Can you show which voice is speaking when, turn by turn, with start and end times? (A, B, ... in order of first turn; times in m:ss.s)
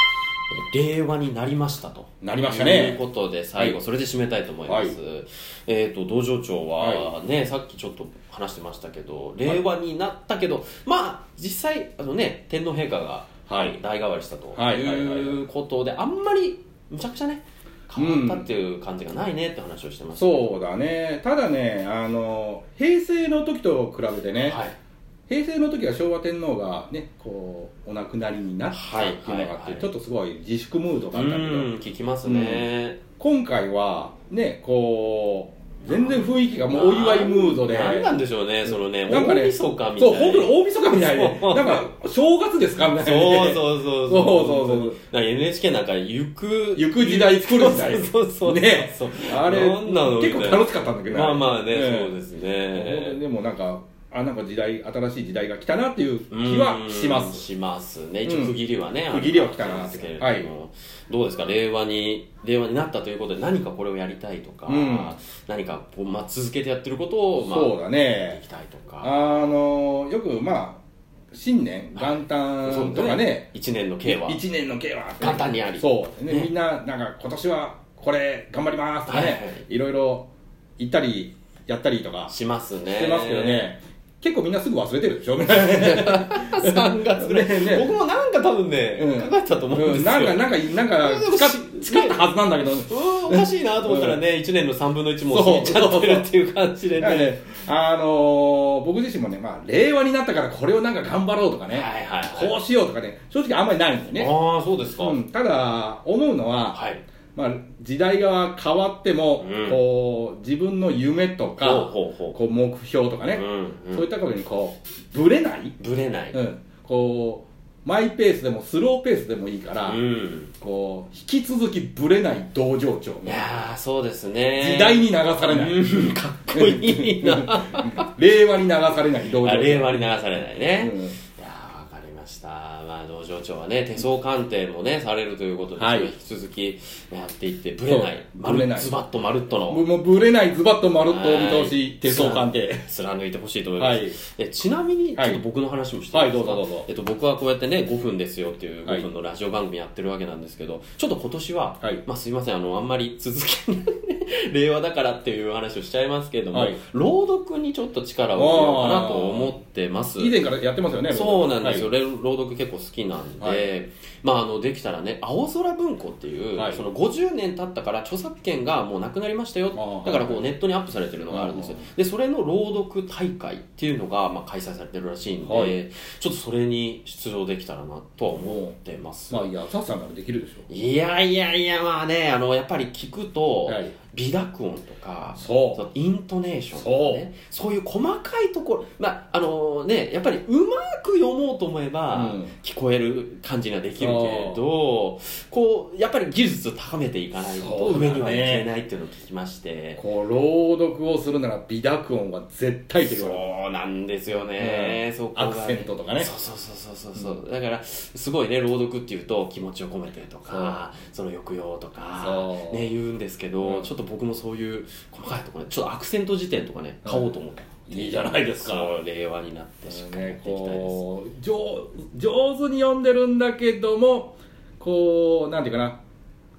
0:00.5-0:20.5 A
0:02.2-0:03.0 B
0:04.7-0:05.0 B
0:06.8-0:07.1 B
0:13.5-0:13.8 B
0:14.5-0:15.4 B
0:18.0-0:18.5 B
0:20.2-0:24.6 B
0:24.4-0:24.8 A
0:25.3-0:31.7 B
0:28.7-0:29.9 A
0:31.1-0:33.0 A
0:32.2-0:32.6 B
0:33.2-0:38.1 B
0:35.9-0:41.8 A
0:38.6-0:45.0 B
0:43.0-0:53.2 A
0:46.8-0:52.2 B
0:52.7-0:57.4 B
0:56.3-1:09.1 A
0:58.2-0:58.6 B
0:59.1-1:00.5 B
1:04.7-1:05.1 B
1:07.4-1:08.4 B
1:09.0-1:10.8 B
1:11.3-1:13.5 B
1:11.9-1:14.4 A
1:14.0-1:22.3 B
1:15.2-1:16.5 A
1:19.1-1:19.6 A
1:22.3-1:23.6 A
1:22.9-1:27.9 B
1:25.6-1:32.2 A
1:29.0-1:34.2 B
1:32.9-1:37.4 A
1:35.3-1:36.3 B
1:37.0-1:44.3 B
1:41.7-1:42.5 A
1:44.1-1:45.2 A
1:45.0-1:46.8 B
1:46.7-1:47.0 A
1:47.3-1:55.8 B
1:49.4-1:49.8 A
1:51.6-1:52.4 A
1:53.2-1:54.1 A
1:55.8-1:56.4 A
1:56.3-2:00.0 B
1:59.8-2:00.5 A
2:00.6-2:03.6 B
2:03.2-2:08.0 A
2:04.6-2:05.8 B
2:06.5-2:10.0 B
2:09.4-2:19.8 A
2:10.8-2:11.2 B
2:15.8-2:16.1 B
2:17.9-2:18.9 B
2:19.7-2:22.8 B
2:21.0-2:40.4 A
2:23.8-2:24.2 B
2:25.1-2:25.4 B
2:26.1-2:26.9 B
2:36.5-2:36.8 B
2:38.4-2:39.5 B
2:40.2-2:41.9 B
2:41.1-2:59.5 A
2:43.4-2:43.7 B
2:46.6-2:46.8 B
2:49.7-2:50.4 B
2:51.3-2:51.8 B
2:55.4-2:55.8 B
2:58.4-2:58.8 B
2:59.3-3:00.7 B
3:00.7-3:20.0 A
3:03.7-3:03.9 B
3:05.4-3:05.8 B
3:06.7-3:07.2 B
3:12.1-3:12.5 B
3:14.0-3:14.6 B
3:17.4-3:18.7 B
3:20.0-3:23.4 B
3:23.0-3:41.0 A
3:24.6-3:26.3 B
3:30.5-3:30.8 B
3:32.2-3:32.9 B
3:33.6-3:33.9 B
3:37.0-3:37.3 B
3:37.9-3:38.9 B
3:39.9-3:46.0 B